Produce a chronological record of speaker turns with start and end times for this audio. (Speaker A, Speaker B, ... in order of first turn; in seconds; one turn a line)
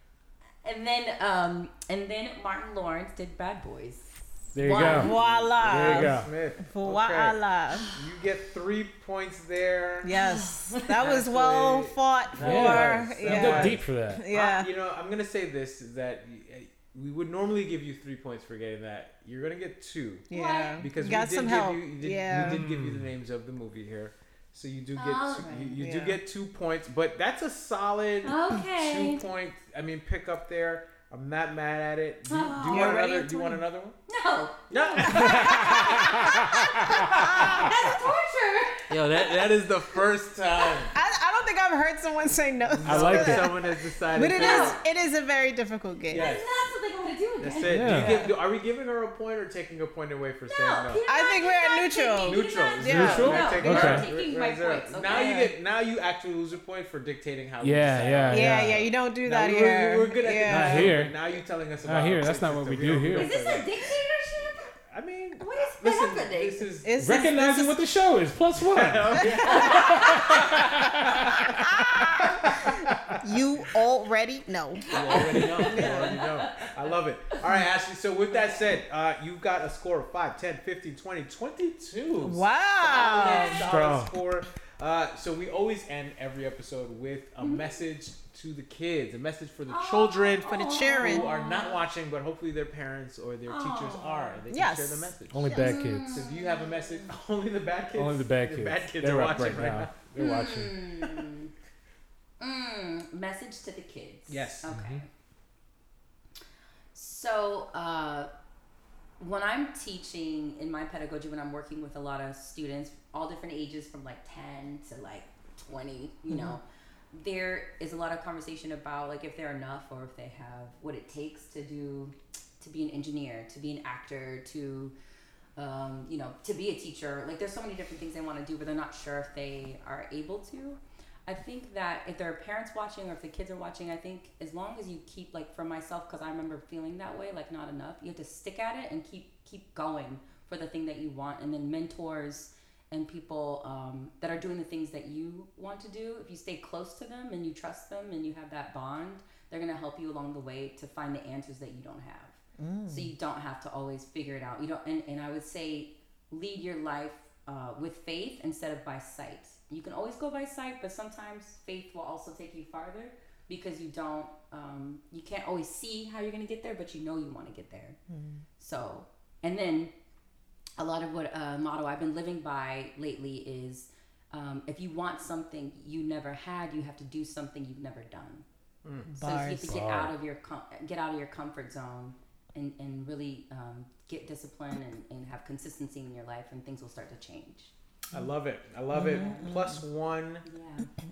Speaker A: 0.6-5.2
Speaker B: 4.5-5.1
Speaker C: 4.6-7.9
Speaker D: 5.0-7.4
Speaker B: 5.7-6.3
Speaker A: 7.7-8.0
Speaker D: 7.9-10.1
Speaker C: 10.0-14.7
Speaker A: 10.1-10.9
Speaker D: 10.9-20.3
Speaker B: 12.4-14.2
Speaker A: 20.3-20.8
Speaker C: 20.3-22.6
Speaker D: 20.8-34.0
Speaker B: 22.3-23.1
Speaker A: 24.9-25.8
Speaker C: 25.8-26.2
Speaker A: 28.2-29.2
Speaker A: 32.3-33.0
Speaker C: 32.6-33.6
Speaker A: 34.1-39.6
Speaker D: 34.7-36.3
Speaker B: 35.1-37.0
Speaker C: 35.1-37.7
Speaker D: 36.8-37.9
Speaker D: 38.9-40.9
Speaker A: 40.6-40.9
Speaker C: 40.9-46.3
Speaker D: 42.7-44.8
Speaker B: 42.9-43.6
Speaker A: 44.3-44.8
Speaker D: 46.1-46.5
Speaker A: 46.1-47.8
Speaker D: 47.4-51.0
Speaker B: 47.7-48.3
Speaker C: 47.9-48.3
Speaker A: 50.5-55.4
Speaker C: 51.0-53.8
Speaker D: 52.2-58.7
Speaker B: 52.9-54.1
Speaker C: 55.1-55.5
Speaker B: 57.6-58.9
Speaker C: 58.3-60.9
Speaker D: 59.2-63.7
Speaker B: 60.5-61.1
Speaker B: 61.8-63.4
Speaker A: 63.1-64.7
Speaker D: 64.9-66.9
Speaker A: 65.4-66.6
Speaker C: 66.8-67.8
Speaker B: 67.0-71.9
Speaker D: 68.5-71.4
Speaker C: 69.2-69.6
Speaker A: 69.4-70.5
Speaker C: 71.6-76.2
Speaker D: 72.5-73.2
Speaker A: 74.8-76.7
Speaker D: 74.9-95.6
Speaker C: 82.2-83.6
Speaker A: 82.8-83.6
Speaker B: 83.6-84.1
Speaker A: 87.4-87.7
Speaker A: 89.7-91.8
Speaker C: 90.4-91.3
Speaker A: 93.5-94.4
Speaker C: 94.5-95.8
Speaker B: 95.3-96.2
Speaker A: 95.5-97.1
Speaker D: 96.1-99.9
Speaker B: 97.9-100.8
Speaker A: 100.2-101.5
Speaker A: 102.4-105.1
Speaker D: 104.3-104.7
Speaker B: 104.7-105.0
Speaker A: 106.9-108.3
Speaker A: 109.2-124.9
Speaker A: 125.5-168.0
Speaker C: 152.6-153.1
Speaker C: 168.1-168.4
Speaker A: 168.6-169.9
Speaker A: 170.8-178.4
Speaker D: 178.8-179.1
Speaker C: 179.1-179.8
Speaker A: 179.2-187.7
Speaker B: 179.6-180.1
Speaker D: 188.1-190.4
Speaker C: 188.9-189.6
Speaker A: 189.1-189.5
Speaker A: 190.4-190.9